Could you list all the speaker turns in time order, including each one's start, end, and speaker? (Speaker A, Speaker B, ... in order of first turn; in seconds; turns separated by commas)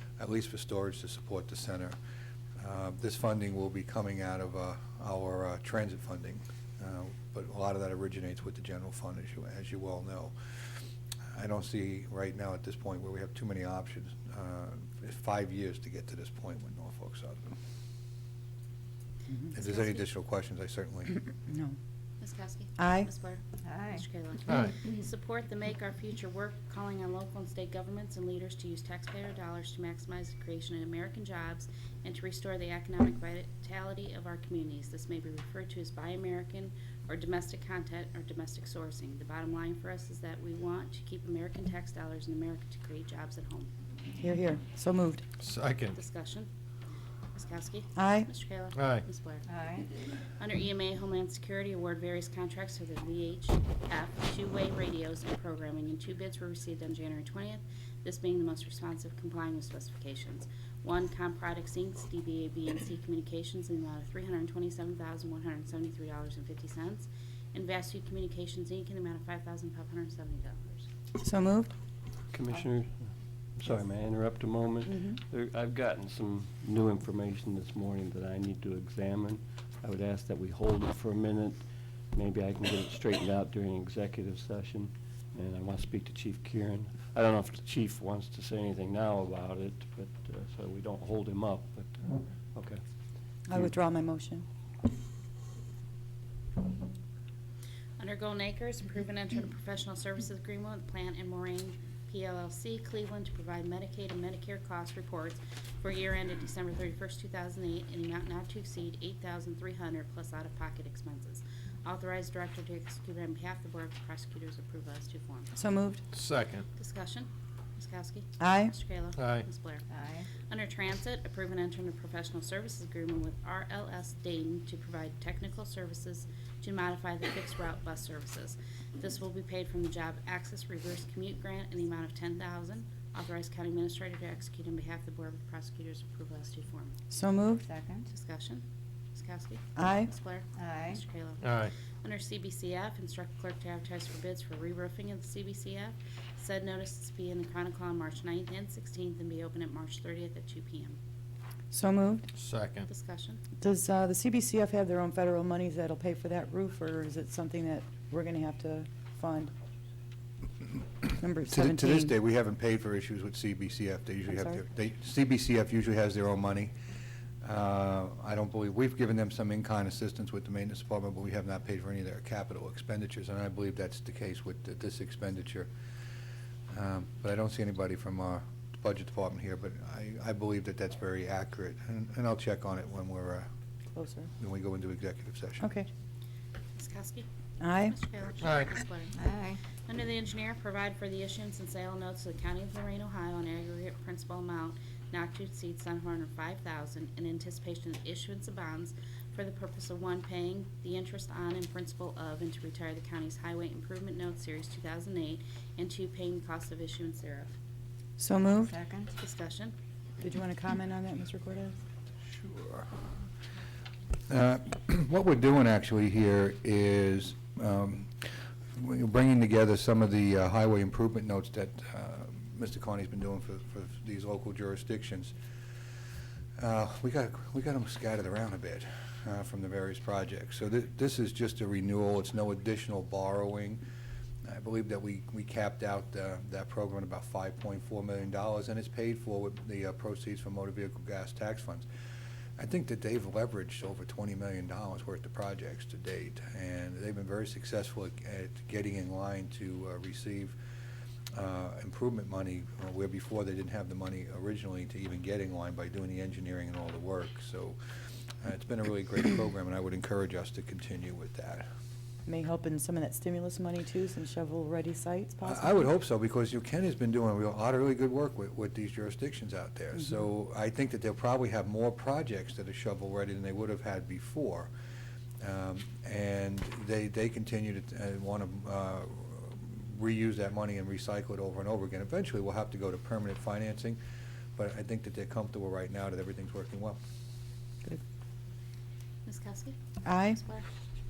Speaker A: 0.2-2.0, Speaker A: 2.6-10.3, Speaker A: 11.3-17.6, Speaker A: 19.5-21.2, Speaker B: 19.6-20.0, Speaker C: 21.4-21.8, Speaker B: 22.2-43.7, Speaker C: 22.8-23.1, Speaker D: 23.6-24.0, Speaker E: 24.5-24.7, Speaker C: 44.2-45.2, Speaker E: 45.4-46.0, Speaker B: 46.0-46.5, Speaker B: 47.3-49.5, Speaker C: 48.0-48.3, Speaker E: 48.7-49.0, Speaker D: 49.5-49.9, Speaker B: 50.4-70.9, Speaker C: 71.2-71.7, Speaker F: 72.3-92.8, Speaker C: 93.5-94.5, Speaker B: 98.0-115.5, Speaker C: 115.5-116.0, Speaker E: 116.1-116.7, Speaker B: 116.8-119.9, Speaker C: 118.4-118.7, Speaker E: 119.2-119.5, Speaker D: 119.9-120.3, Speaker B: 120.4-137.0, Speaker C: 137.1-137.7, Speaker D: 137.6-138.1, Speaker B: 138.1-151.0, Speaker C: 139.8-140.1, Speaker D: 140.6-141.0, Speaker E: 141.4-141.7, Speaker C: 151.7-152.3, Speaker E: 152.4-152.9, Speaker B: 152.9-153.4, Speaker C: 153.6-159.5, Speaker C: 161.2-162.1, Speaker A: 161.5-166.7, Speaker C: 164.3-164.6, Speaker A: 167.4-175.7, Speaker A: 176.7-183.5, Speaker C: 183.9-184.3, Speaker A: 184.4-185.7, Speaker C: 185.6-185.9, Speaker B: 186.8-187.3, Speaker C: 187.6-188.0, Speaker B: 187.9-189.3, Speaker E: 188.4-188.7, Speaker D: 189.1-189.6, Speaker B: 189.9-207.6, Speaker C: 208.2-208.8, Speaker D: 208.7-209.1, Speaker B: 209.2-209.7, Speaker C: 210.2-211.8, Speaker A: 212.3-213.0, Speaker A: 214.3-225.3, Speaker A: 226.6-233.8, Speaker A: 234.4-241.9, Speaker A: 242.6-250.6, Speaker A: 251.3-257.8, Speaker A: 258.4-261.7, Speaker C: 262.2-265.9, Speaker A: 265.4-274.7, Speaker A: 275.4-284.0, Speaker A: 284.6-287.0, Speaker B: 289.2-290.6, Speaker C: 290.1-290.4